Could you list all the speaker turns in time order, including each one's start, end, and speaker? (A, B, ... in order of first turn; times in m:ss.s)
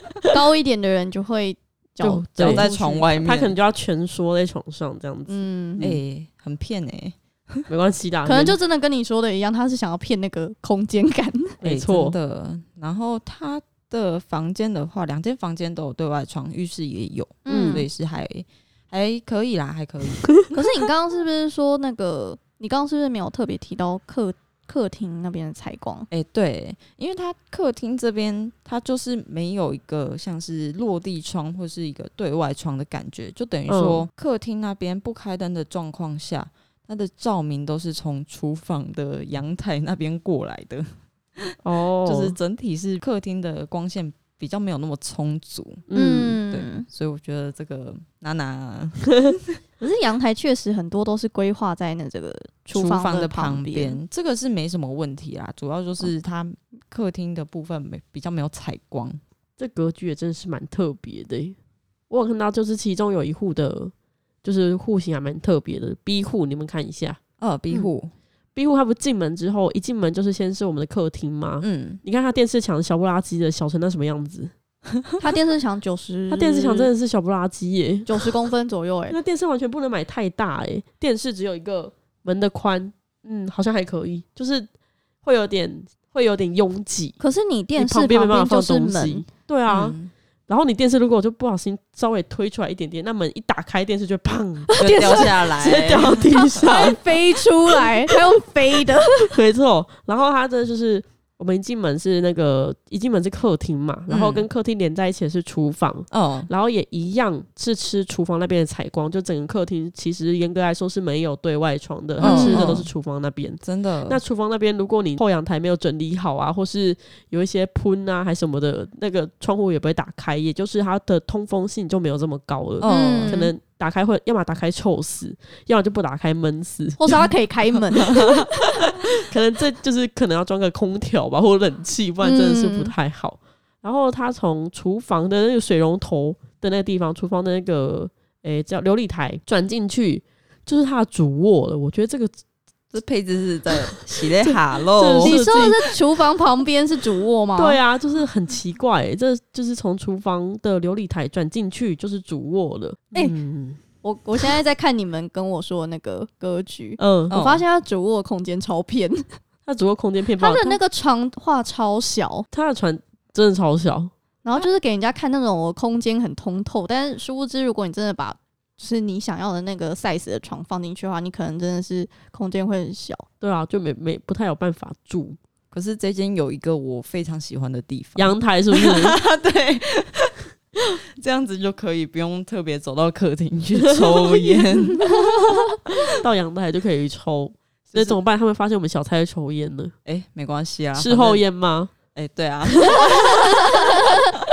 0:00.3-0:03.0 A
0:02.0-0:06.0 B
0:02.4-0:03.5 C
0:05.3-0:05.8 A
0:05.8-0:07.6 C
0:07.7-0:08.6 B
0:08.2-0:11.6 A
0:11.6-0:12.1 B
0:11.6-0:20.3 C
0:17.4-0:17.9 A
0:17.5-0:17.8 B
0:20.5-0:26.1 A
0:26.1-0:45.9 C
0:33.7-0:34.0 B
0:41.6-0:42.3 B
0:45.9-0:46.4 B
0:45.9-0:46.8 A
0:46.5-0:49.6 C
0:49.8-0:54.0 A
0:52.7-0:59.2 C
0:59.6-1:01.6 B
1:02.1-1:07.2 B
1:07.4-1:08.1 C
1:08.5-1:14.5 B
1:11.6-1:12.0 C
1:15.2-1:16.9 A
1:16.3-1:18.3 B
1:18.1-1:19.2 A
1:19.1-1:24.7 B
1:25.2-1:27.2 B
1:27.2-1:29.2 A
1:27.8-1:30.0 B
1:29.7-1:30.1 C
1:30.5-1:38.1 B
1:34.7-1:35.5 A
1:34.8-1:36.3 C
1:36.3-1:39.3 A
1:39.2-2:07.2 B
1:44.1-1:44.4 C
1:46.1-1:46.5 C
1:52.2-1:52.8 A
1:52.2-1:52.9 C
1:53.6-1:54.2 C
2:02.8-2:03.4 C
2:02.8-2:03.5 A
2:07.0-2:08.5 A
2:08.0-2:08.5 C
2:08.8-2:22.3 B
2:12.2-2:12.9 A
2:22.9-2:25.4 C
2:24.4-2:25.9 B
2:25.2-2:27.8 A
2:27.6-2:33.8 B
2:34.0-2:39.3 A
2:37.0-2:37.3 B
2:37.3-2:37.6 C
2:39.6-2:40.8 B
2:40.4-2:42.4 A
2:42.5-2:44.1 B
2:44.4-2:53.2 A
2:53.4-2:55.4 B
2:55.7-3:05.6 C
2:58.2-2:59.2 B
3:06.0-3:09.9 B
3:07.9-3:08.2 C
3:10.0-3:11.4 C
3:11.0-3:11.9 B
3:12.1-3:13.7 C
3:13.1-3:14.4 A